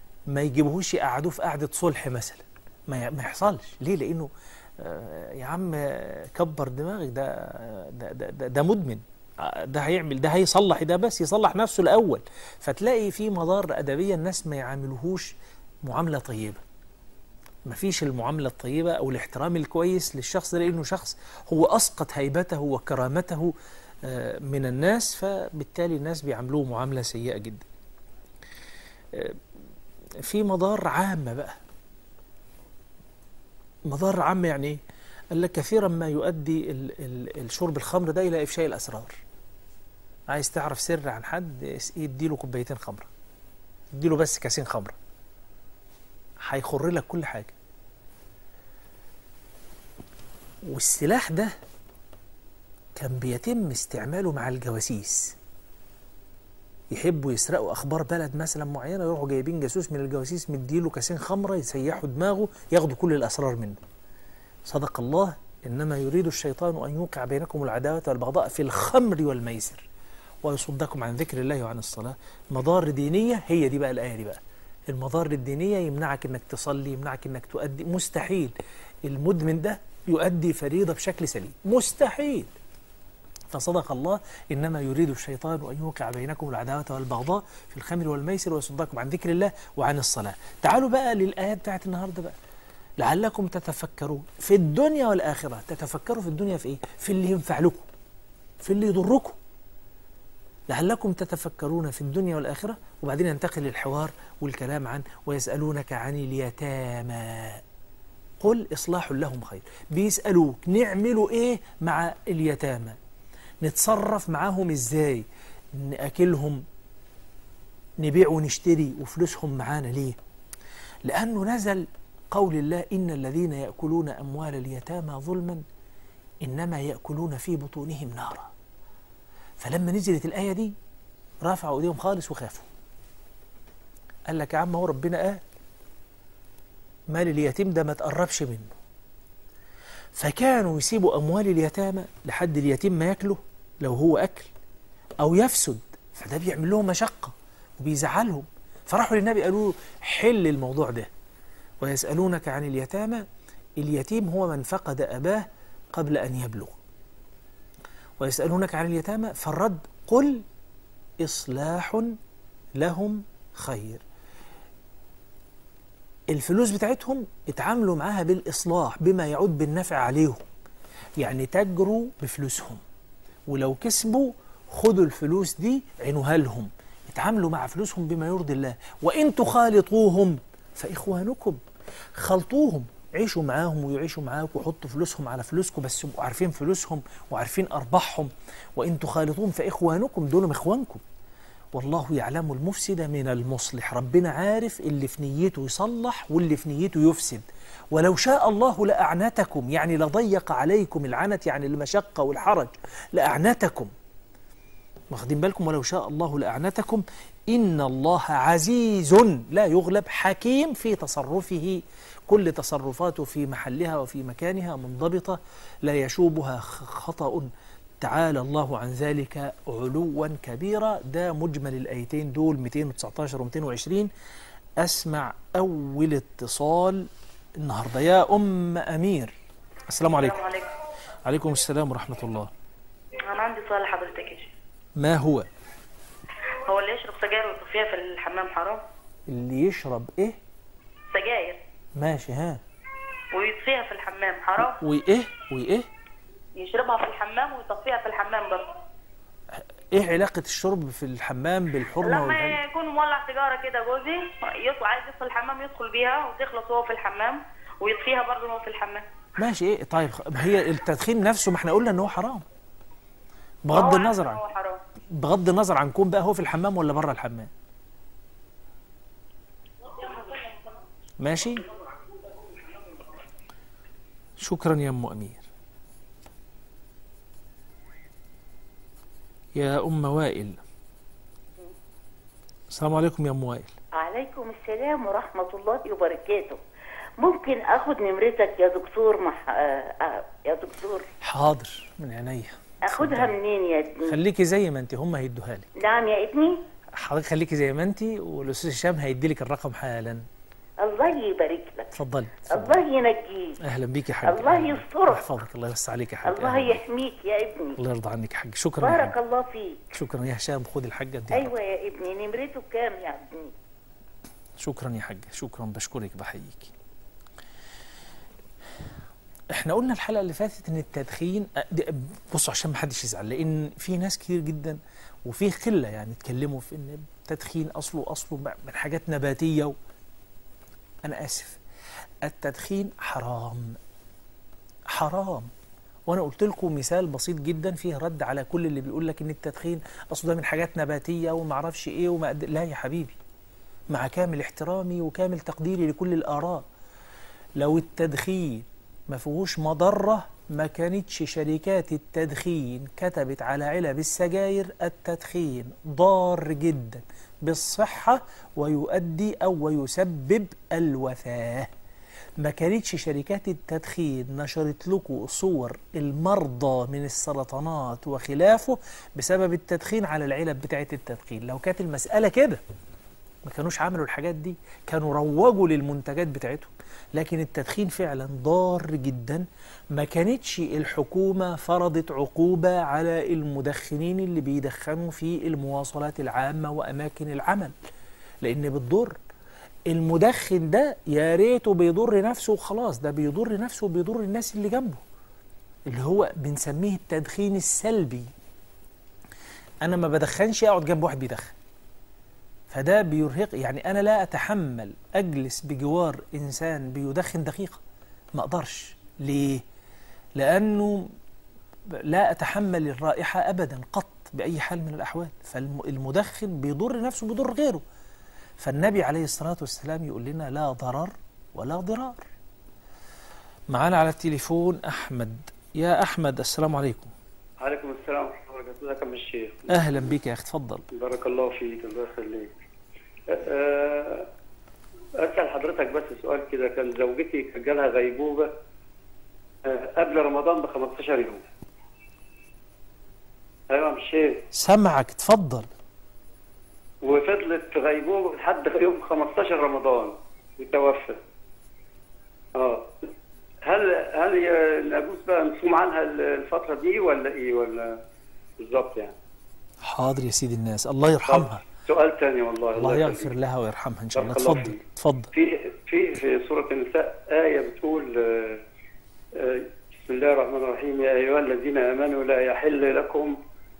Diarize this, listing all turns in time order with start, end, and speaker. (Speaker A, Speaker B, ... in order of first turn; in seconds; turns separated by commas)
Speaker A: 0.3-16.6, Speaker A: 17.6-23.5, Speaker A: 24.0-27.6, Speaker A: 29.1-29.4, Speaker A: 30.2-31.5, Speaker A: 33.9-34.8, Speaker A: 35.3-39.2, Speaker A: 40.3-43.1, Speaker A: 43.9-44.9, Speaker A: 46.4-47.5, Speaker A: 50.6-51.5, Speaker A: 53.0-55.4, Speaker A: 56.9-63.8, Speaker A: 64.7-69.8, Speaker A: 70.4-78.5, Speaker A: 79.0-82.5, Speaker A: 83.5-92.3, Speaker A: 93.0-97.9, Speaker A: 98.6-99.4, Speaker A: 100.7-107.6, Speaker A: 108.4-113.0, Speaker A: 113.6-116.6, Speaker A: 118.0-120.2, Speaker A: 121.0-125.6, Speaker A: 126.4-128.5, Speaker A: 129.6-130.7, Speaker A: 131.4-132.7, Speaker A: 134.3-135.4, Speaker A: 137.1-138.7, Speaker A: 140.2-144.5, Speaker A: 145.2-151.1, Speaker A: 151.8-153.2, Speaker A: 153.8-156.8, Speaker A: 158.2-160.4, Speaker A: 161.2-162.2, Speaker A: 162.8-164.0, Speaker A: 166.3-170.4, Speaker A: 171.2-172.8, Speaker A: 173.5-181.6, Speaker A: 182.2-191.0, Speaker A: 191.7-203.9, Speaker A: 205.1-224.1, Speaker A: 224.8-229.3, Speaker A: 229.9-230.4, Speaker B: 230.1-230.7, Speaker A: 231.2-232.5, Speaker B: 233.2-234.5, Speaker A: 234.9-235.5, Speaker B: 236.7-238.8, Speaker A: 239.3-240.4, Speaker B: 241.1-241.6, Speaker A: 242.0-242.6, Speaker B: 243.3-244.8, Speaker A: 244.8-245.9, Speaker B: 246.6-248.7, Speaker A: 249.9-252.6, Speaker B: 252.0-259.0, Speaker A: 259.4-262.4, Speaker A: 263.6-264.4, Speaker B: 263.7-264.8, Speaker A: 265.1-267.5, Speaker B: 269.9-270.6, Speaker A: 271.2-271.6, Speaker A: 274.4-275.5, Speaker A: 279.5-280.6, Speaker A: 282.7-283.7, Speaker C: 283.9-286.6, Speaker C: 287.2-291.1, Speaker A: 291.2-293.3, Speaker C: 292.9-294.1, Speaker A: 294.1-295.7, Speaker C: 295.8-296.6, Speaker A: 296.9-300.2, Speaker C: 300.8-301.9, Speaker A: 301.9-302.8, Speaker C: 302.5-303.6, Speaker A: 303.6-306.8, Speaker C: 304.2-305.2, Speaker C: 306.2-307.8, Speaker A: 307.8-309.1, Speaker C: 308.8-309.9, Speaker A: 309.9-311.5, Speaker C: 311.3-313.5, Speaker A: 314.6-316.7, Speaker A: 319.5-329.7, Speaker A: 331.0-331.6, Speaker A: 332.2-333.8, Speaker A: 334.9-335.5, Speaker A: 336.1-343.2, Speaker A: 343.9-346.6, Speaker A: 347.6-361.7, Speaker A: 362.4-372.6, Speaker A: 373.4-387.7, Speaker A: 388.4-389.2, Speaker A: 389.9-395.0, Speaker A: 395.9-398.3, Speaker A: 399.8-401.5, Speaker A: 402.7-407.8, Speaker A: 408.3-409.6, Speaker A: 410.4-411.1, Speaker A: 411.9-417.8, Speaker A: 418.6-422.2, Speaker A: 423.7-427.1, Speaker D: 427.6-429.7, Speaker A: 429.7-430.8, Speaker D: 430.9-432.5, Speaker D: 433.3-434.3, Speaker D: 435.2-438.5, Speaker D: 439.6-441.4, Speaker D: 443.7-444.4, Speaker A: 444.5-445.7, Speaker D: 447.0-451.2, Speaker D: 452.6-453.1, Speaker D: 453.6-458.0, Speaker D: 458.6-459.1, Speaker A: 459.8-461.6, Speaker D: 461.2-463.3, Speaker A: 462.8-465.3, Speaker D: 464.1-464.8, Speaker D: 465.3-468.6, Speaker D: 469.3-473.4